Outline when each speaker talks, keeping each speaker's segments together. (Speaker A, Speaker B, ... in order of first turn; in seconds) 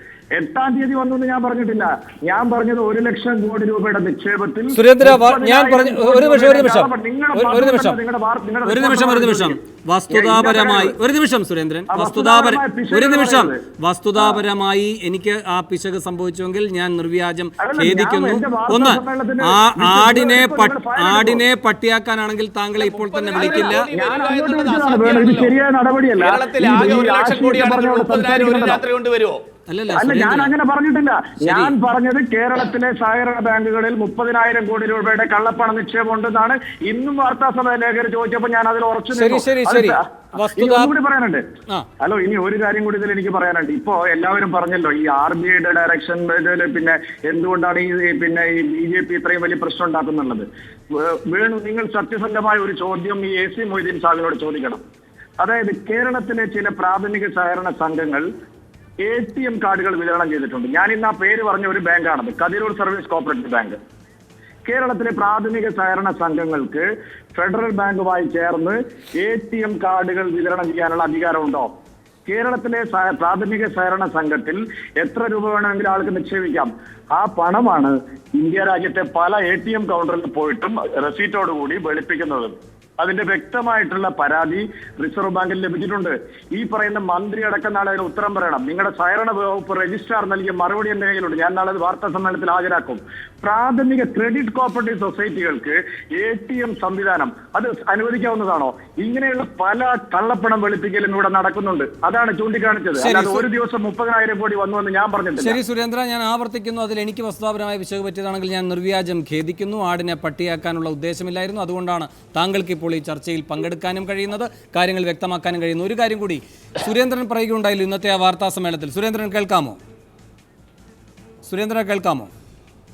Speaker A: 0.3-9.6, 10.1-10.9, 11.9-13.6, 17.6-21.4, 23.4-28.8, 29.9-40.0, 40.5-41.4, 42.0-54.8, 55.4-58.2, 59.0-63.8, 64.7-71.7, 72.2-105.6
Speaker B: 4.7-8.0, 8.6-23.9, 29.7-30.5, 31.4-31.7, 39.1-40.9, 103.0-103.5, 105.4-119.8, 121.4-122.3
Speaker C: 22.8-25.5, 26.2-29.4